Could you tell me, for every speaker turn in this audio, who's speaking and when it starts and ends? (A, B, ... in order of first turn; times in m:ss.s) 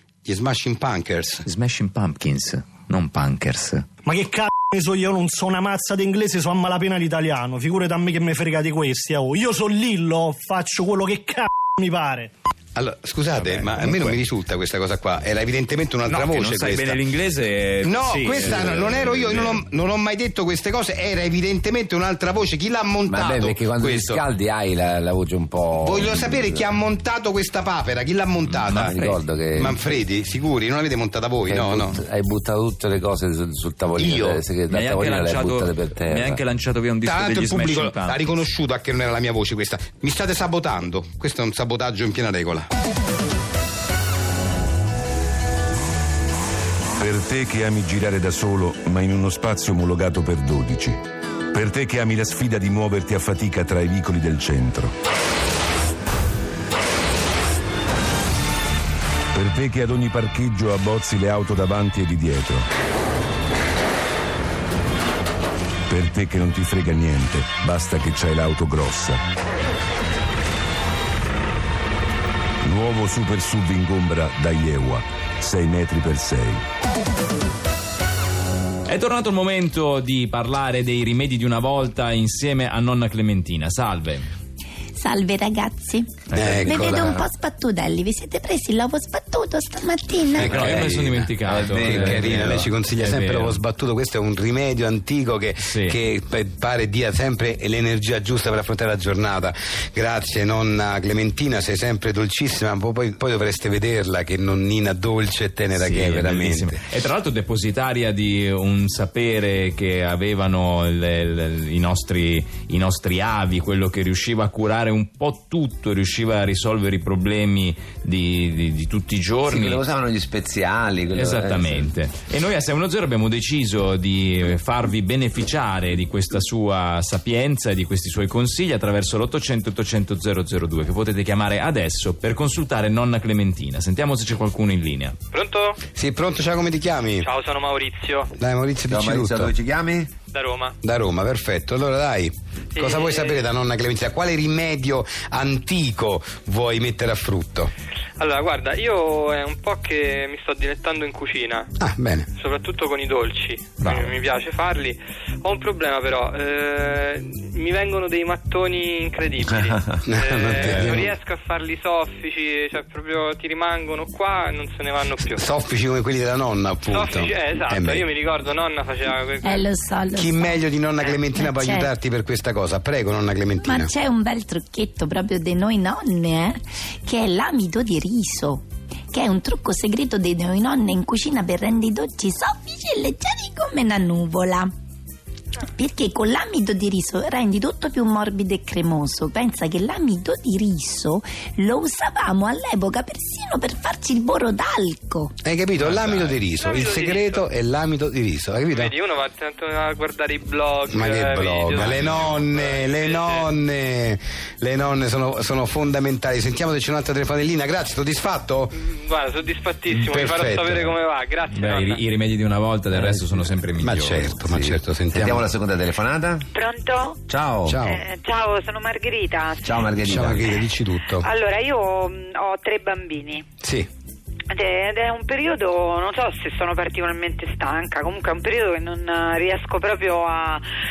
0:00.2-0:01.5 A
0:01.4-0:03.8 B
0:04.0-0:12.3 C
0:12.7-0:17.0 A
0:13.3-0:14.2 B
0:16.0-0:19.6 B
0:17.8-0:24.2 A
0:18.4-0:18.7 D
0:23.1-0:26.6 D
0:25.8-0:29.0 A
0:28.5-0:29.2 B
0:28.7-0:30.0 D
0:29.5-0:32.0 A
0:31.4-0:36.4 D
0:34.0-0:34.4 A
0:34.7-0:38.3 B
0:37.0-0:42.7 A
0:47.0-0:51.0 E
0:51.5-0:54.9 E
0:59.3-1:02.7 E
1:05.9-1:09.2 E
1:12.6-1:16.6 E
1:18.9-1:24.3 B
1:25.0-1:30.8 F
1:26.3-1:27.1 B
1:26.3-1:27.1 A
1:30.4-1:33.6 B
1:30.4-1:46.7 A
1:31.4-1:32.7 D
1:35.6-1:36.0 B
1:45.7-1:59.8 B
1:59.5-2:01.9 D
2:01.1-2:15.2 B
2:15.3-2:15.8 G
2:15.9-2:17.3 A
2:17.2-2:18.3 G
2:18.4-2:19.5 A
2:18.9-2:20.1 D
2:20.3-2:20.7 G
2:20.8-2:27.7 A
2:22.7-2:23.5 G
2:28.2-2:31.7 G
2:31.8-2:32.2 A
2:32.4-2:45.5 G
2:33.8-2:34.1 B
2:40.0-2:41.2 A
2:40.6-2:41.0 B
2:45.2-2:48.0 A
2:46.9-2:49.6 G
2:49.4-2:51.9 F
2:50.2-2:53.9 A
2:53.6-3:04.7 F
3:05.8-3:15.3 F
3:15.4-3:18.9 A
3:15.8-3:17.5 G
3:18.7-3:23.5 G
3:20.9-3:28.7 A
3:28.8-3:32.0 G
3:29.9-3:30.9 B
3:30.1-3:30.9 A
3:31.5-3:34.5 B
3:32.9-3:33.2 D
3:33.8-3:35.4 A
3:34.4-3:36.4 D
3:36.5-3:37.2 H
3:37.3-3:37.8 D
3:37.6-3:38.0 A
3:37.7-3:40.6 H
3:39.6-3:40.6 D
3:40.0-3:41.2 A
3:41.2-3:43.4 H
3:43.6-3:43.9 A
3:44.5-3:50.6 H